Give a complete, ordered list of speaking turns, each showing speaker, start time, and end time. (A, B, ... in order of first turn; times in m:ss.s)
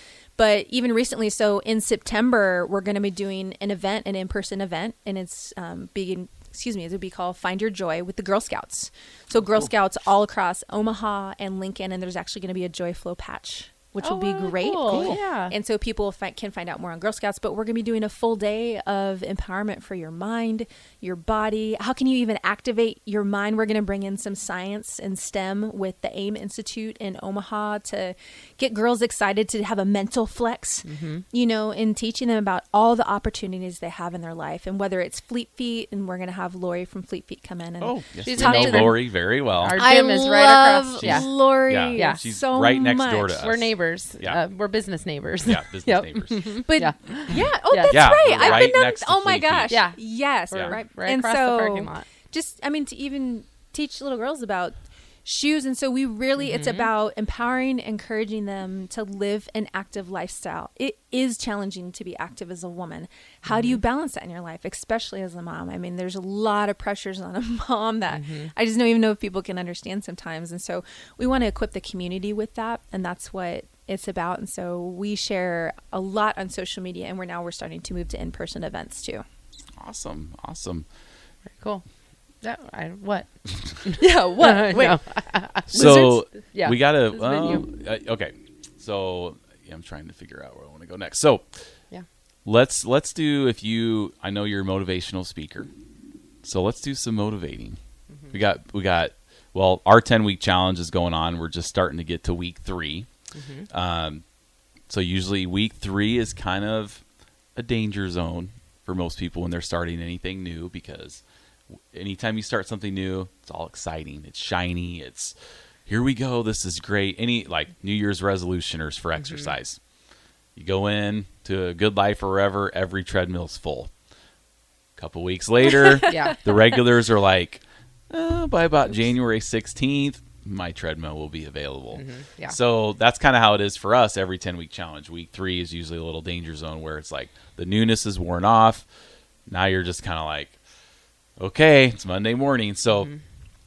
0:00.4-0:39.0 A
0:14.0-0:15.5 B
0:14.9-0:15.2 C
0:30.8-0:31.2 B
0:37.8-0:39.8 C
0:38.2-0:41.3 B
0:39.8-0:43.4 A
0:41.0-0:44.4 C
0:41.9-0:42.3 B
0:43.4-0:48.7 B
0:45.4-0:46.6 C
0:46.6-1:19.2 A
0:47.8-0:49.8 C
0:49.7-0:52.1 B
0:56.4-0:56.9 B
1:03.4-1:03.8 B
1:08.1-1:08.5 B
1:19.8-1:20.9 C
1:21.5-1:21.9 B
1:22.4-1:27.6 B
1:24.0-1:26.2 A
1:25.7-1:31.8 C
1:32.4-1:35.7 C
1:36.4-1:37.8 C
1:38.1-1:38.4 B
1:38.3-1:43.1 C
1:43.3-1:43.7 B
1:43.7-1:44.3 C
1:44.9-1:51.2 C
1:51.9-1:55.4 C
1:55.9-1:59.8 C
1:59.2-1:59.5 B
2:00.6-2:03.9 C
2:05.0-2:18.9 C
2:06.1-2:06.4 B
2:11.9-2:12.6 B
2:19.5-2:20.6 C
2:21.4-2:23.1 C
2:22.9-2:23.2 B